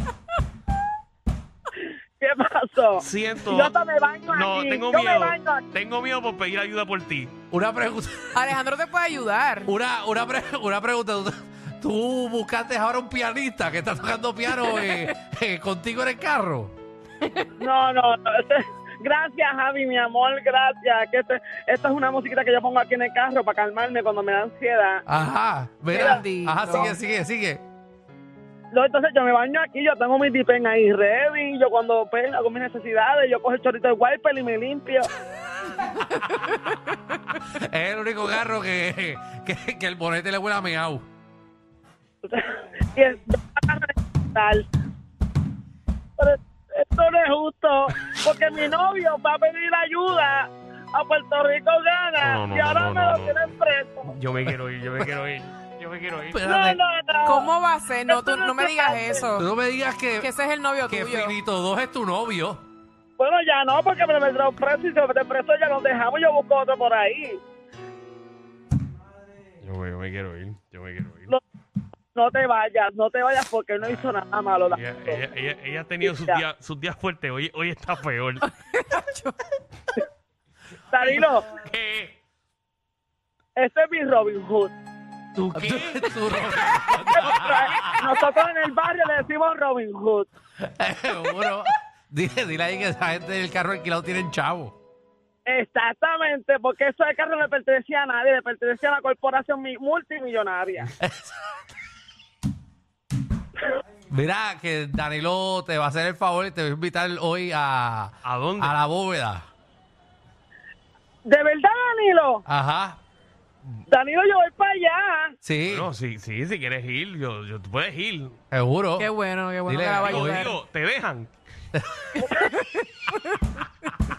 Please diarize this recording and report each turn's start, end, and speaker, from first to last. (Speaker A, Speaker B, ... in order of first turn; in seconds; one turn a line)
Speaker A: 2.2-5.6
Speaker B: 3.0-3.7
Speaker B: 4.3-7.3
Speaker C: 7.5-8.4
Speaker D: 8.3-9.7
Speaker C: 9.7-16.7
Speaker A: 17.6-25.0
Speaker C: 25.1-27.6
Speaker A: 25.9-26.9
Speaker D: 25.9-26.9
Speaker A: 28.7-35.1
Speaker C: 37.4-41.0
Speaker A: 42.9-44.6
Speaker A: 46.2-54.1
Speaker B: 52.2-53.5
Speaker B: 54.0-56.4
Speaker C: 56.3-56.8
Speaker A: 56.5-57.5
Speaker D: 57.2-59.5
Speaker A: 58.1-59.2
Speaker C: 59.4-60.3
Speaker D: 60.2-61.4
Speaker C: 60.9-62.6
Speaker A: 63.2-67.4
Speaker B: 69.6-71.3
Speaker A: 72.1-75.2
Speaker B: 73.8-74.1
Speaker B: 74.7-78.4
Speaker A: 76.0-76.4
Speaker D: 78.4-79.3
Speaker A: 80.9-81.5
Speaker B: 81.0-82.1
Speaker A: 83.5-84.7
Speaker C: 85.3-88.0
Speaker B: 85.5-87.9
Speaker A: 87.1-90.3
Speaker C: 90.6-94.7
Speaker A: 95.5-100.9
Speaker C: 101.0-101.4
Speaker C: 104.1-109.5
Speaker B: 108.2-108.8
Speaker A: 111.2-112.4
Speaker C: 112.5-113.0
Speaker A: 113.9-115.3
Speaker C: 115.4-115.9
Speaker B: 115.7-118.4
Speaker C: 118.5-119.1
Speaker D: 119.0-120.6
Speaker C: 119.7-120.5
Speaker B: 120.0-121.3
Speaker C: 121.7-122.1
Speaker A: 122.2-122.5
Speaker D: 122.5-123.1